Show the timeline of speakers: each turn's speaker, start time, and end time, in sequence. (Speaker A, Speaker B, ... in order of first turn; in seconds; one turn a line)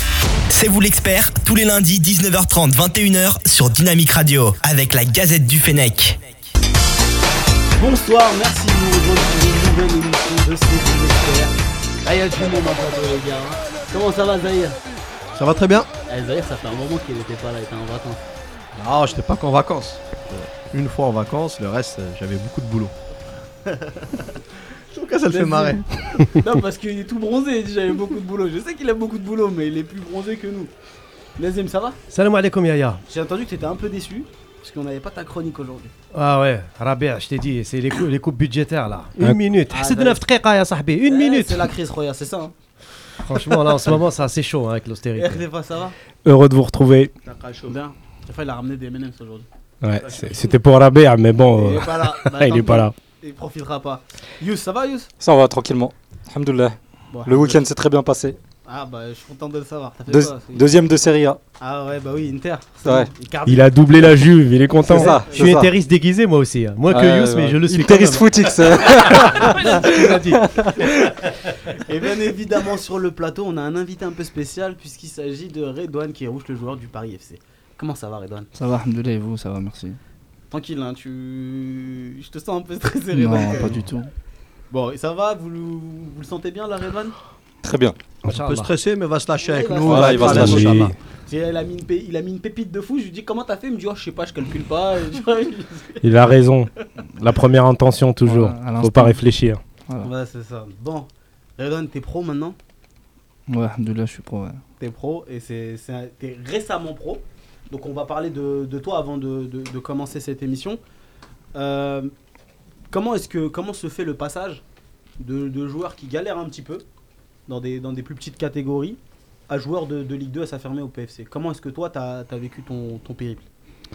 Speaker A: 0.5-6.2
Speaker B: 7.8-14.8
Speaker C: 15.4-15.9
Speaker B: 16.1-18.2
Speaker C: 18.8-22.9
Speaker B: 24.9-30.7
Speaker C: 25.0-25.9
Speaker B: 31.4-32.0
Speaker D: 32.1-33.0
Speaker B: 33.1-35.9
Speaker D: 36.1-41.7
Speaker B: 39.7-40.2
Speaker B: 41.1-42.5
Speaker D: 43.2-45.4
Speaker B: 45.2-46.0
Speaker E: 46.2-47.1
Speaker B: 47.3-49.5
Speaker E: 49.8-52.9
Speaker B: 51.5-55.1
Speaker F: 55.2-58.4
Speaker B: 57.1-57.6
Speaker B: 58.7-60.7
Speaker F: 60.1-61.4
Speaker B: 61.6-63.8
Speaker F: 62.8-63.1
Speaker E: 63.5-65.2
Speaker F: 64.9-65.7
Speaker D: 64.9-70.5
Speaker F: 66.9-71.1
Speaker B: 69.4-70.2
Speaker B: 71.8-78.5
Speaker G: 78.6-80.0
Speaker B: 80.5-83.8
Speaker G: 83.1-84.1
Speaker B: 84.7-87.2
Speaker F: 87.6-88.0
Speaker D: 88.3-88.7
Speaker C: 88.3-90.9
Speaker B: 89.5-96.1
Speaker F: 89.8-90.8
Speaker E: 90.3-90.9
Speaker E: 96.0-99.6
Speaker G: 98.2-99.2
Speaker B: 100.0-102.6
Speaker G: 103.5-104.6
Speaker B: 104.8-110.8
Speaker B: 111.5-112.1
Speaker B: 112.9-114.6
Speaker B: 115.2-116.8
Speaker B: 117.5-123.5